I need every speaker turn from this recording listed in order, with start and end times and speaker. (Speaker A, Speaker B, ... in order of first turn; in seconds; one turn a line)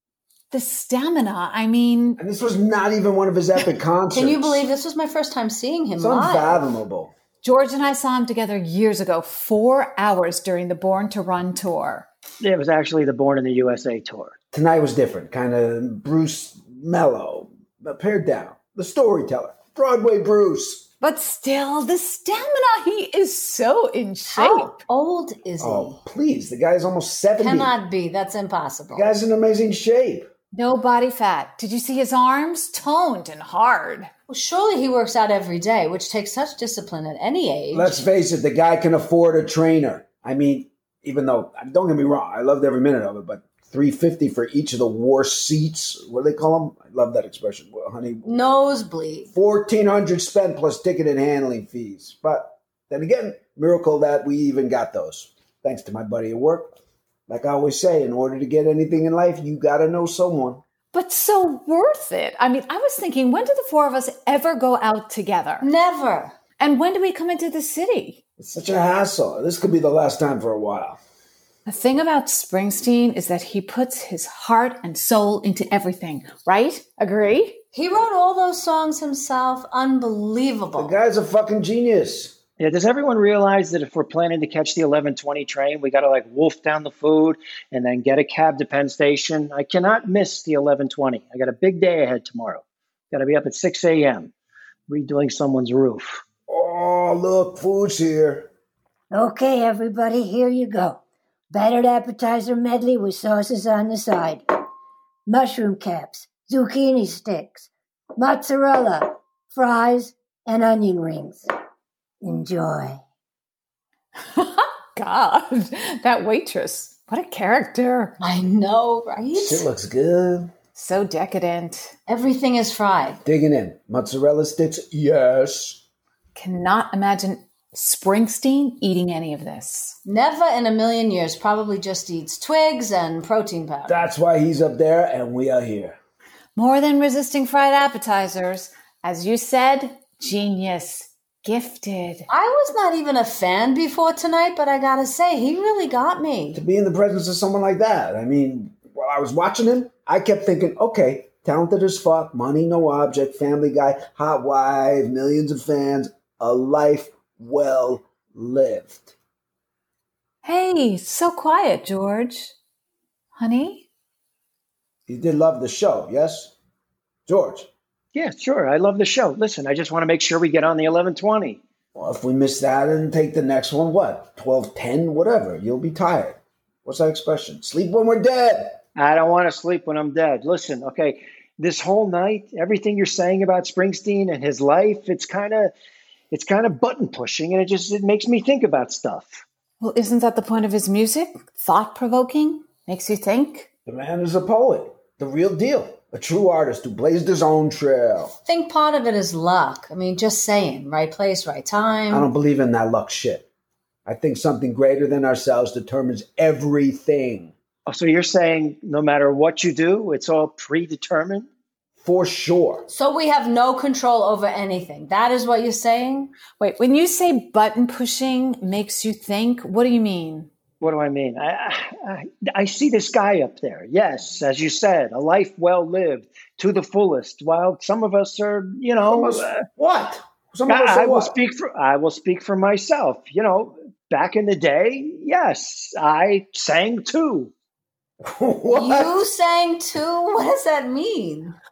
Speaker A: 0.5-2.2
Speaker B: 2.2-4.7
Speaker C: 4.1-6.7
Speaker B: 6.0-7.1
Speaker A: 7.4-12.1
Speaker D: 12.4-14.3
Speaker B: 14.5-20.9
Speaker A: 21.0-24.8
Speaker C: 24.3-26.0
Speaker B: 25.6-27.7
Speaker C: 27.4-29.1
Speaker B: 28.9-30.3
Speaker A: 30.5-34.1
Speaker C: 34.3-38.0
Speaker B: 37.7-48.4
Speaker C: 48.2-49.3
Speaker B: 49.3-56.8
Speaker B: 57.3-60.6
Speaker A: 60.9-65.7
Speaker C: 65.6-66.3
Speaker A: 66.6-68.2
Speaker B: 68.4-71.0
Speaker A: 71.7-77.6
Speaker C: 77.7-81.0
Speaker B: 80.8-82.4
Speaker D: 82.6-94.3
Speaker D: 94.9-96.2
Speaker B: 96.5-98.5
Speaker E: 99.1-101.0
Speaker E: 101.6-104.2
Speaker E: 105.3-111.5
Speaker E: 112.2-112.9
Speaker A: 114.3-118.2
Speaker C: 118.2-119.7
Speaker B: 119.3-120.5
Speaker A: 120.8-122.0
Speaker C: 122.1-123.2
Speaker B: 123.2-125.8
Speaker A: 126.3-130.0
Speaker C: 130.1-134.0
Speaker B: 133.9-136.0
Speaker A: 136.6-142.3
Speaker C: 142.3-146.6
Speaker B: 146.5-159.1
Speaker A: 160.4-162.5
Speaker A: 163.3-163.9
Speaker B: 165.1-166.5
Speaker B: 167.3-167.7
Speaker D: 168.1-171.6
Speaker B: 171.9-178.8
Speaker D: 179.0-185.7
Speaker D: 186.3-189.4
Speaker A: 189.8-193.7
Speaker B: 193.9-198.3
Speaker C: 198.4-202.3
Speaker B: 202.1-203.5
Speaker B: 204.1-207.5
Speaker D: 207.9-211.5
Speaker B: 212.0-212.9
Speaker C: 212.9-216.3
Speaker A: 216.6-220.5
Speaker D: 220.8-229.6
Speaker B: 229.1-231.3
Speaker D: 230.7-237.5
Speaker B: 238.2-239.2
Speaker C: 238.7-241.6